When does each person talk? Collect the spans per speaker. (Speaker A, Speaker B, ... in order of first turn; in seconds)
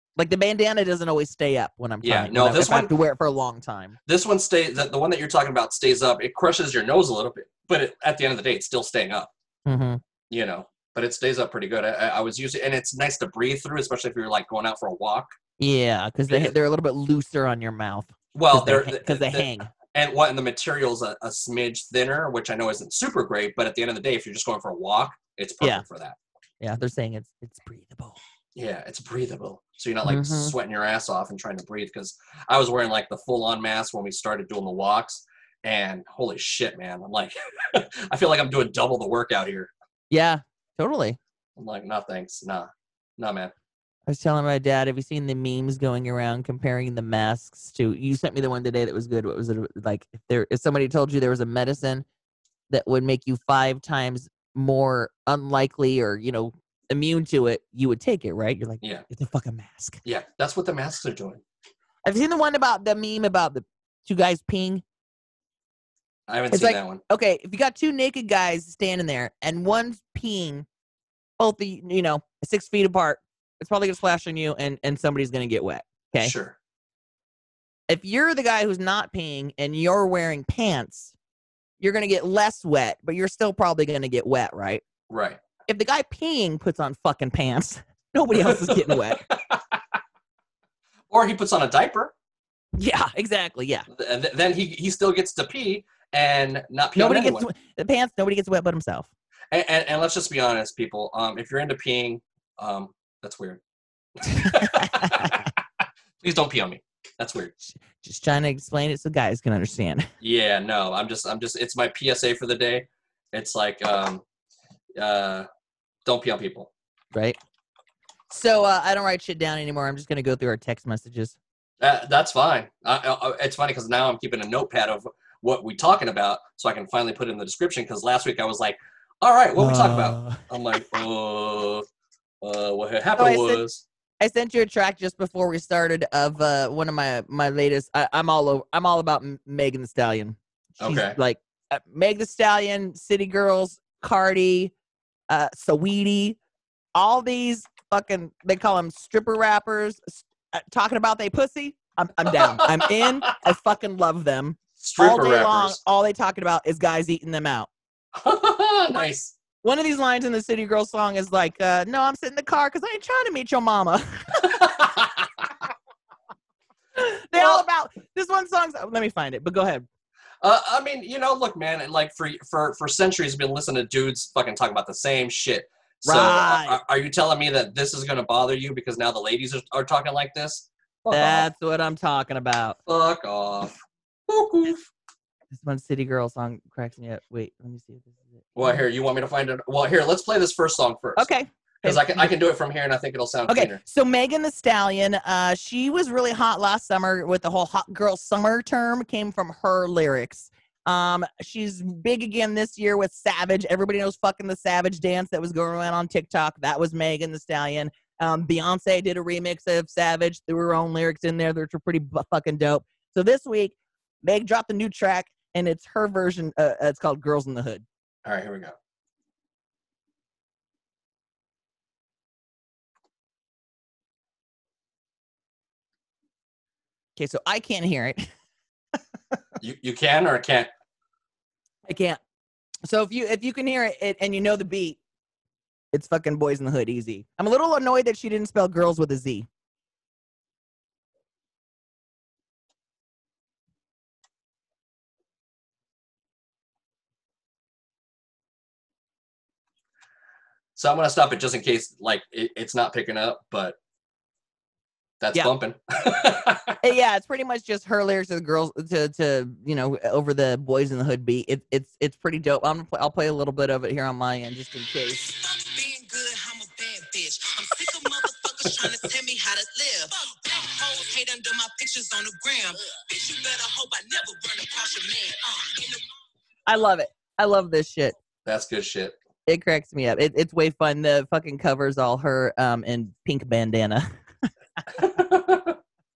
Speaker A: 0.2-4.0, 9.7-10.0, 15.6-19.7, 26.6-28.2, 30.0-30.5, 40.1-41.2, 44.1-52.1, 52.7-60.0, 62.0-64.8, 66.5-70.7, 71.4-76.3, 77.9-81.1, 81.8-84.8, 85.7-89.3, 92.8-93.9, 97.0-99.1, 104.3-105.5, 107.7-110.1, 118.3-121.4, 129.6-130.5, 133.2-133.6, 134.2-144.7, 145.3-146.4, 146.9-157.7, 159.6-164.7, 167.0-169.9, 176.1-176.8, 181.1-182.8, 185.5-188.8, 191.2-192.3, 193.5-217.8, 227.2-228.3, 231.9-232.2, 232.8-235.0, 235.9-239.5, 256.8-265.3, 276.7-278.1, 279.5-284.1
Speaker B: 2.0-2.9, 4.1-9.3, 10.3-15.3, 18.3-26.2, 28.6-39.7, 41.6-43.5, 60.0-61.4, 66.3-67.0, 76.2-76.6, 85.1-85.4, 88.3-89.8, 91.1-92.1, 93.9-97.5, 99.5-103.6, 104.2-105.6, 106.2-107.5, 110.2-114.2, 115.0-115.5, 116.0-116.7, 121.8-131.9, 132.4-133.8, 140.8-141.2, 152.4-153.3, 154.8-155.8, 158.2-159.3, 164.4-165.5, 167.3-167.6, 170.4-181.5, 182.9-183.8, 184.3-184.9, 188.6-191.3, 191.8-193.8, 218.2-218.8, 229.6-230.7, 250.8-253.8, 255.2-256.8, 278.4-279.2, 284.9-285.8
Speaker C: 265.3-276.1